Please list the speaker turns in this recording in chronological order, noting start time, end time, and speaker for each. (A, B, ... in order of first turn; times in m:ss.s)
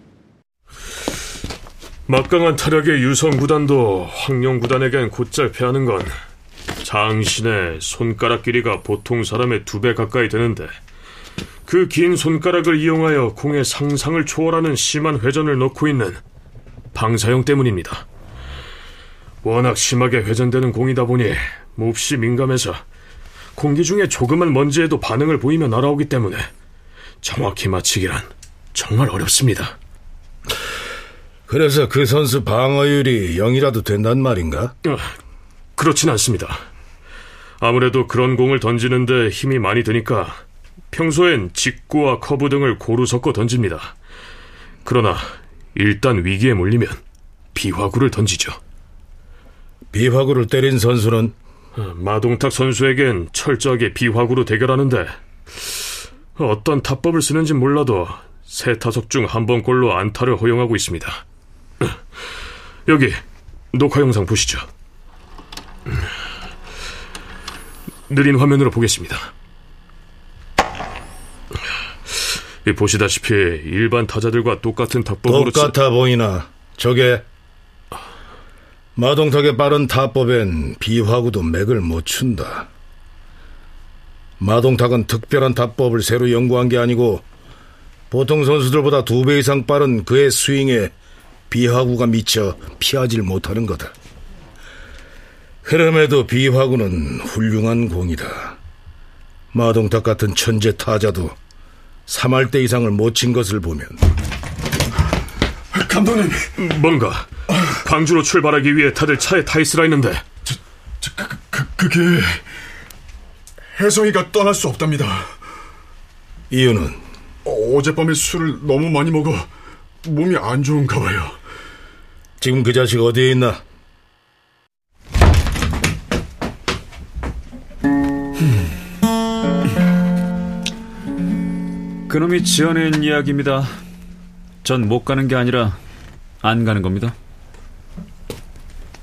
0:02.1-0:06.1 A
0:06.8-0:10.8 A
0:11.7-0:16.2 A
0:16.9-0:18.0 A
0:19.4-0:22.8 A
0:23.6-0:26.5 A
0:27.2-0:29.8 A
0:31.5-0:34.7 B
0:35.8-0:36.6 A
0:37.6-0:40.4 A
0:40.9-0:43.9 A
0:44.9-0:47.0 A
0:47.6-0:48.6 A
0:49.9-0:51.3 B
0:51.8-0:55.2 A
0:56.4-1:01.2 A
1:02.9-1:03.2 A
1:03.7-1:04.7 A
1:08.1-1:09.3 A
1:12.6-1:15.8 A
1:15.3-1:17.2 B
1:19.0-1:22.7 B
1:24.4-1:27.2 B
1:28.1-1:30.9 B
1:31.5-1:33.9 B
1:35.6-1:38.6 B
1:39.5-1:41.4 B
1:42.1-1:44.0 B
1:45.7-1:46.5 C
1:46.6-1:50.2 A
1:50.5-1:52.4 C
1:53.8-1:55.3 C
1:56.5-1:57.0 B
1:57.5-1:59.5 C
2:00.0-2:01.4 C
2:02.4-2:03.6 B
2:12.1-2:13.7 D
2:14.6-2:15.8 D
2:16.4-2:17.2 D